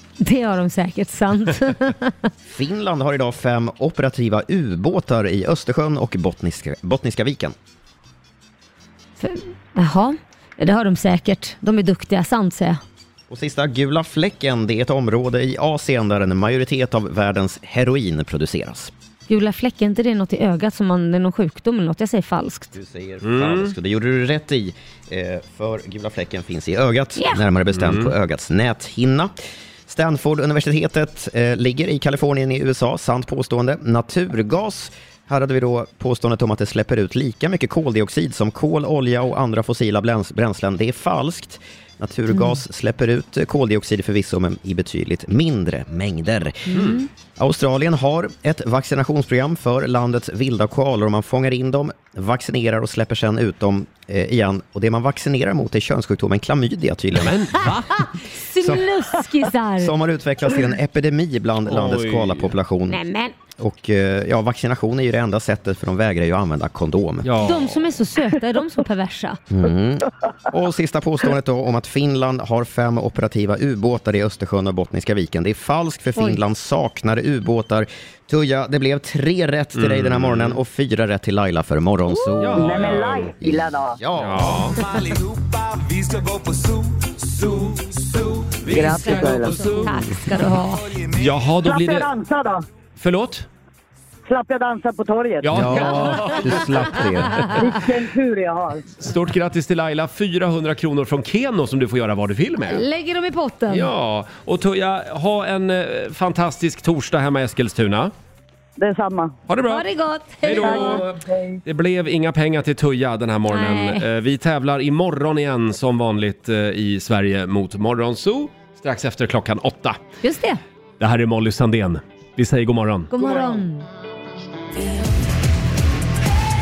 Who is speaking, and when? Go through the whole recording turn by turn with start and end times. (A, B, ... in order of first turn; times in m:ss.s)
0:00.2-0:02.3 A
0:02.5-0:07.5 B
0:09.2-0:12.8 A
0:13.3-0:18.9 B
0:19.3-0:22.8 A
0:22.7-0:29.3 B
0:23.2-0:23.7 C
0:27.2-0:27.4 A
0:27.7-0:28.1 C
0:29.9-0:46.8 B
0:42.3-0:42.6 A
0:46.7-0:47.0 A
0:46.7-0:47.0 C
0:47.4-0:57.5 B
0:57.2-0:58.0 C
0:57.6-0:59.9 A
0:58.6-0:58.9 B
0:59.8-1:03.0 B
1:01.7-1:02.5 C
1:02.9-1:03.3 A
1:03.6-1:07.3 B
1:07.2-1:07.8 C
1:07.4-1:09.4 A
1:09.5-1:24.7 B
1:16.2-1:16.4 A
1:19.8-1:20.6 C
1:22.1-1:22.4 A
1:22.4-1:23.2 C
1:22.6-1:24.0 D
1:24.2-1:24.8 C
1:24.5-1:31.4 E
1:28.7-1:29.7 D
1:28.9-1:29.8 C
1:29.7-1:30.8 A
1:31.2-1:32.1 C
1:31.6-1:32.6 D
1:33.0-1:33.5 C
1:34.3-1:35.5 D
1:35.4-1:37.5 C
1:35.5-1:37.6 B
1:37.5-1:38.8 D
1:39.0-1:42.8 C
1:42.7-1:43.9 A
1:43.7-1:48.1 C
1:48.8-1:49.4 D
1:49.5-1:49.9 C
1:49.6-1:51.0 A
1:50.4-2:00.0 C
1:50.6-1:51.6 D
1:53.5-1:54.0 A
2:00.2-2:00.6 A
2:01.0-2:03.4 C
2:03.1-2:03.8 A